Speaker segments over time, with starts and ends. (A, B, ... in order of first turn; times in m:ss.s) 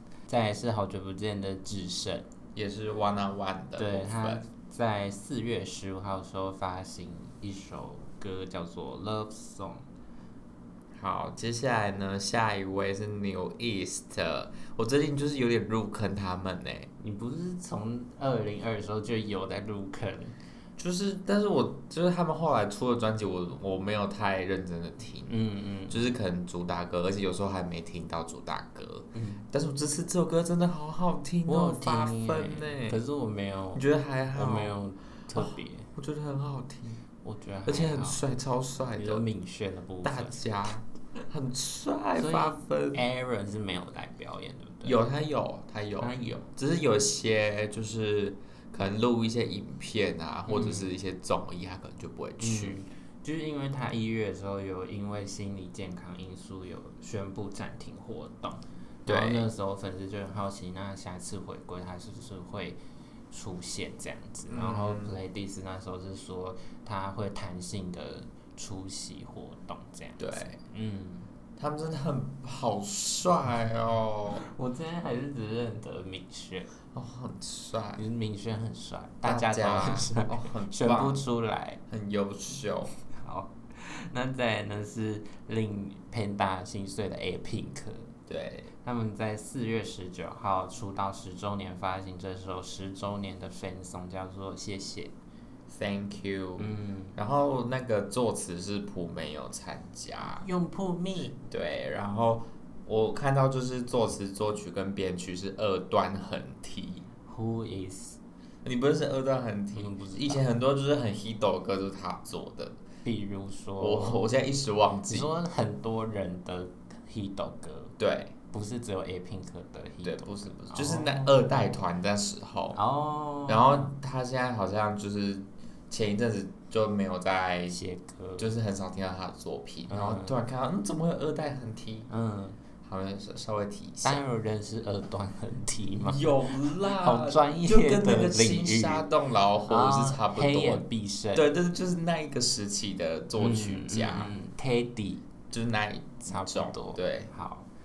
0:00.3-0:02.3 A
0:02.6-0:04.4 B
0:03.8-0:09.8 A
0:11.0-0:16.9 B
0:17.0-0:20.4 A
0:20.8-0:25.3 B
0:25.3-0:26.0 A
0:25.9-0:33.0 B
0:29.1-0:29.4 A
0:31.5-0:33.8 A
0:33.8-0:34.7 B
0:34.4-0:35.9 A
0:35.4-0:37.0 B
0:37.2-0:38.2 A
0:37.7-0:39.2 B
0:39.0-0:40.4 A
0:40.0-0:43.0 B
0:42.2-0:45.0 A
0:44.8-0:52.8 B
0:46.0-0:46.4 A
0:50.5-0:50.9 A
0:52.4-1:02.8 A
0:59.1-0:59.5 B
1:03.3-1:11.3 A
1:04.5-1:05.2 B
1:10.2-1:10.6 B
1:11.6-1:14.4 B
1:14.3-1:16.7 A
1:16.9-1:18.0 B
1:18.0-1:21.8 A
1:19.2-1:21.2 B
1:21.9-1:22.9 B
1:23.1-1:28.1 A
1:28.3-1:28.7 B
1:28.8-1:35.1 A
1:35.7-1:40.5 B
1:36.6-1:37.2 A
1:40.3-1:41.4 A
1:41.5-1:47.1 B
1:47.2-1:48.2 A
1:48.6-1:52.8 B
1:49.8-1:50.5 A
1:53.0-1:54.2 A
1:53.8-1:55.3 B
1:55.1-1:58.0 A
1:58.0-1:58.4 B
1:58.5-2:01.7 A
2:00.0-2:02.8 B
2:02.7-2:03.9 A
2:03.5-2:07.8 B
2:07.7-2:08.5 A
2:08.4-2:12.1 B
2:09.9-2:10.4 A
2:12.1-2:12.6 A
2:12.9-2:14.2 B
2:14.0-2:16.3 A
2:16.0-2:20.8 B
2:16.8-2:19.1 A
2:19.7-2:21.5 A
2:21.3-2:24.3 B
2:23.4-2:25.2 A
2:25.5-2:27.3 B
2:26.3-2:27.7 A